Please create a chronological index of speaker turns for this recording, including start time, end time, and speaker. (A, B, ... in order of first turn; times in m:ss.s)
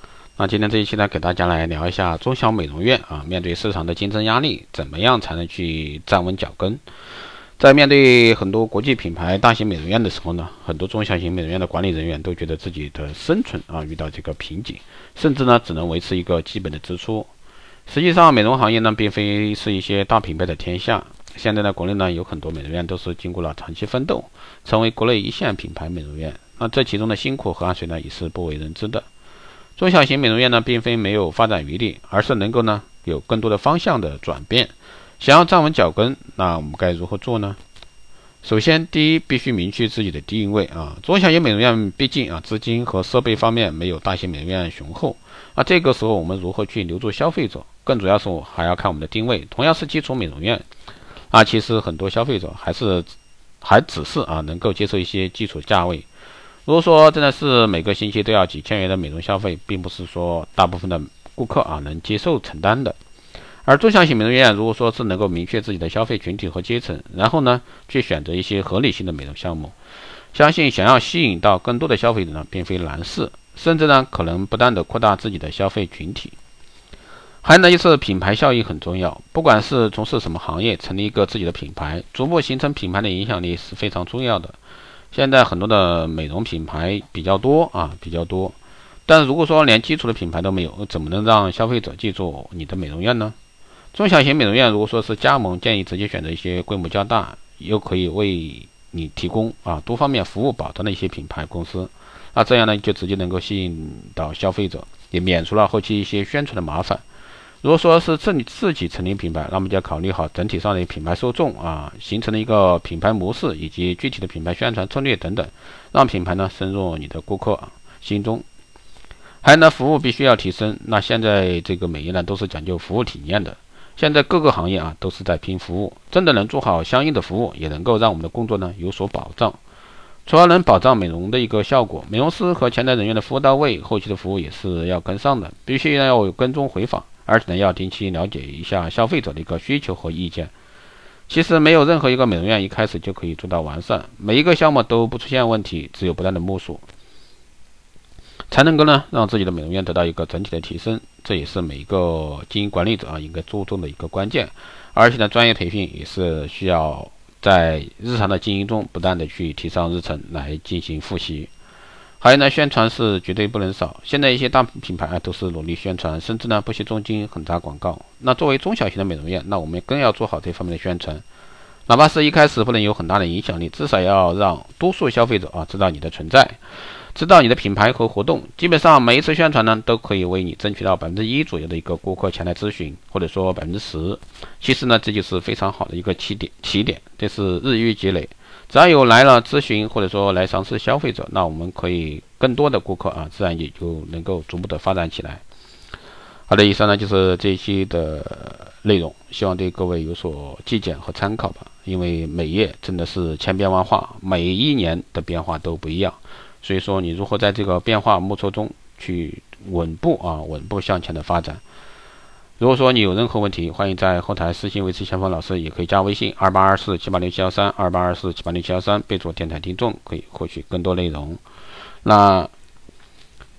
0:00.4-0:06.8 A
0:07.6-0:17.3 A
0:17.9-0:29.0 A
0:29.8-0:37.6 A
0:38.4-0:50.6 A
0:51.3-0:53.1 A
0:53.6-0:56.0 A
0:56.7-1:03.0 A
1:03.6-1:09.7 A
1:10.3-1:16.4 A
1:17.4-1:24.6 A
1:25.1-1:28.5 A
1:29.1-1:33.3 A
1:33.9-1:47.0 A
1:47.6-1:58.4 A
1:59.4-2:09.6 A
2:10.2-2:20.5 A
2:21.3-2:26.8 A
2:28.5-2:41.5 A
2:42.2-2:51.2 A
2:51.9-2:56.6 A
2:57.1-3:15.4 A
3:16.5-3:31.6 A
3:32.6-3:41.4 A
3:42.0-3:42.5 A